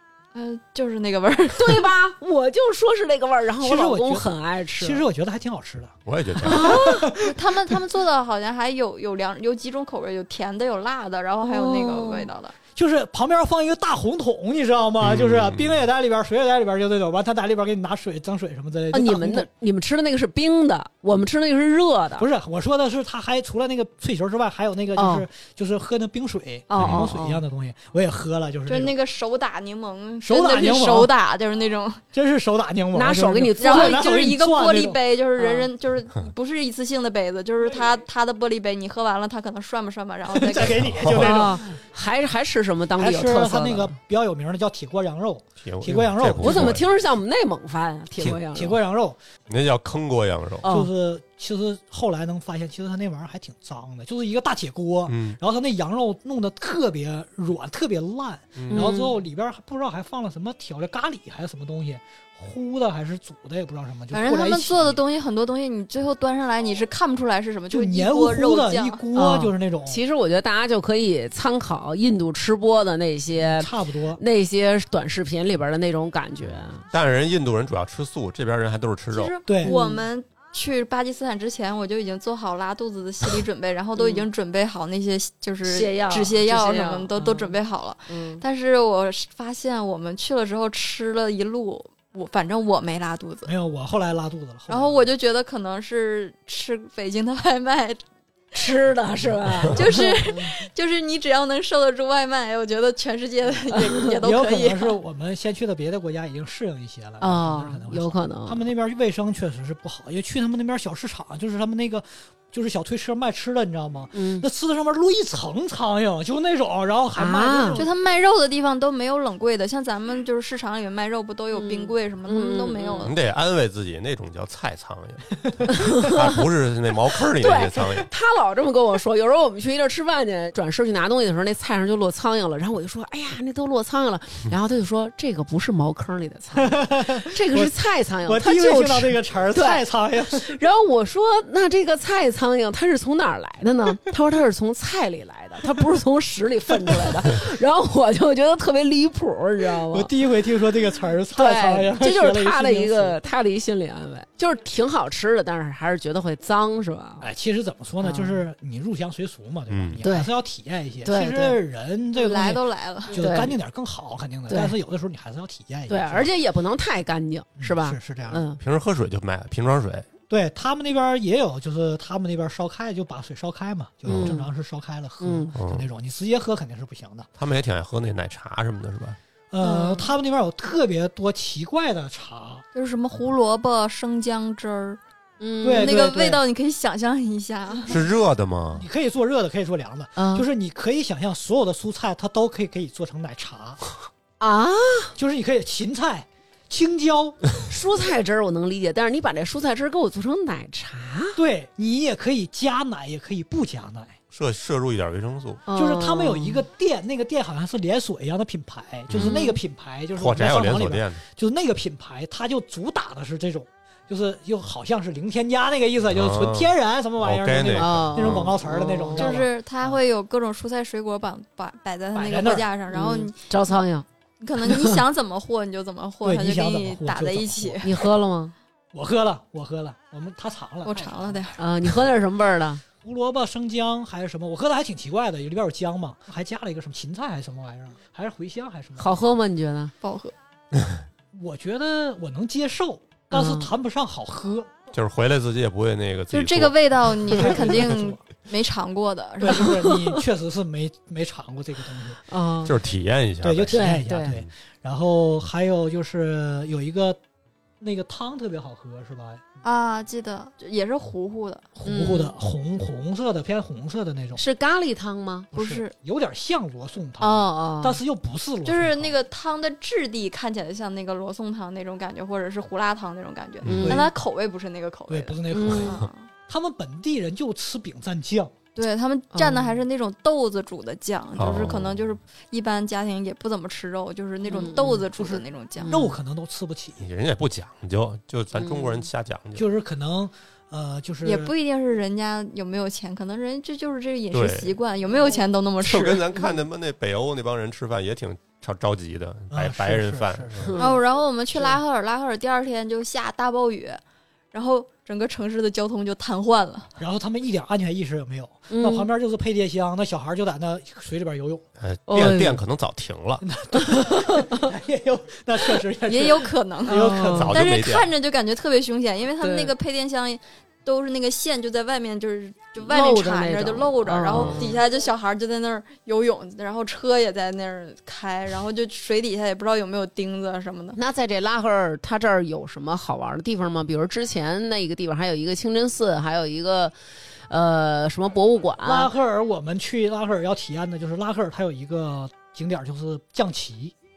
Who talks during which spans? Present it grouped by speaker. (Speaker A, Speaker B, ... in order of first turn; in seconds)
Speaker A: 0.3-1.9, 7.1-12.5, 28.7-32.0, 33.6-40.9, 64.1-69.0, 79.1-93.5, 94.7-98.0, 99.7-105.0, 117.8-123.2, 162.1-163.2, 179.6-180.1, 182.7-185.0, 185.6-188.0, 219.1-223.8, 224.4-227.9, 230.8-231.6, 240.0-240.3, 246.3-249.8, 259.6-261.7, 265.5-265.9, 268.6-276.3, 278.8-285.9, 291.2-296.5, 300.8-304.0, 304.5-306.9, 316.1-331.0
Speaker B: 1.5-5.0, 6.4-7.1, 11.4-12.3, 18.9-22.3, 24.9-25.3, 26.7-27.4, 32.9-34.0, 35.4-35.7, 41.0-44.0, 46.4-48.8, 50.6-50.9, 58.7-59.1, 69.1-76.9, 79.6-80.0, 84.0-84.2, 85.7-87.5, 88.1-88.4, 98.5-100.5, 103.7-104.2, 107.2-108.7, 114.1-114.5, 117.1-117.8, 121.5-123.1, 125.7-126.3, 127.4-150.1, 151.3-157.3, 158.0-158.4, 160.0-160.3, 161.0-161.6, 163.1-163.5, 164.5-164.8, 165.9-168.6, 174.1-174.5, 175.2-175.5, 185.4-186.0, 190.2-190.5, 194.4-195.1, 197.7-201.4, 205.7-206.6, 209.1-209.6, 217.8-219.3, 222.9-224.1, 224.6-225.0, 227.8-228.5, 231.6-232.8, 239.0-239.9, 243.3-243.7, 249.6-250.2, 252.3-252.7, 253.7-254.4, 261.8-262.3, 264.3-265.5, 267.2-268.0, 273.6-274.1, 275.5-276.0, 279.3-279.8, 284.5-285.0, 285.8-286.1, 288.5-289.0, 300.7-301.0, 308.7-309.1, 312.1-312.6, 313.9-314.7, 316.9-317.5, 319.4-319.7, 322.8-324.8, 330.9-336.9, 337.5-339.1
Speaker C: 3.6-7.8, 12.7-19.5, 22.2-28.9, 30.2-31.1, 32.1-35.0, 40.3-41.7, 43.0-46.8, 48.2-49.2, 50.6-65.0, 67.7-70.0, 73.3-74.2, 79.5-79.8, 93.4-95.1, 104.1-117.9, 136.6-137.7, 138.2-140.6, 146.8-147.1, 149.9-153.2, 157.2-166.3, 167.6-168.4, 170.3-177.3, 179.5-182.6, 185.6-186.4, 188.7-193.8, 195.2-197.4, 201.3-204.2, 205.7-220.0, 222.1-222.7, 226.2-228.1, 228.9-231.5, 233.0-239.2, 241.3-244.7, 247.3-248.2, 249.4-252.2, 253.4-257.2, 257.8-259.4, 261.7-264.4, 265.5-269.1, 273.8-274.1, 275.1-278.5, 285.1-287.1, 289.5-291.5, 299.5-300.8, 307.0-311.6, 313.4-317.5, 338.8-343.9
Speaker D: 6.0-6.7, 15.0-15.8, 26.8-27.1, 40.8-41.4, 45.6-46.9, 49.5-50.7, 55.0-55.4, 58.5-58.9, 76.9-79.3, 123.0-128.1, 159.7-160.0, 168.6-170.1, 174.1-174.3, 175.5-175.8, 177.4-179.2, 187.9-188.8, 204.3-205.6, 209.1-209.4, 210.1-211.2, 216.1-218.5, 244.9-247.9, 252.6-254.4, 281.4-282.0, 287.0-289.6, 294.3-294.7, 295.8-300.7, 311.8-313.4, 317.2-318.1, 324.3-324.6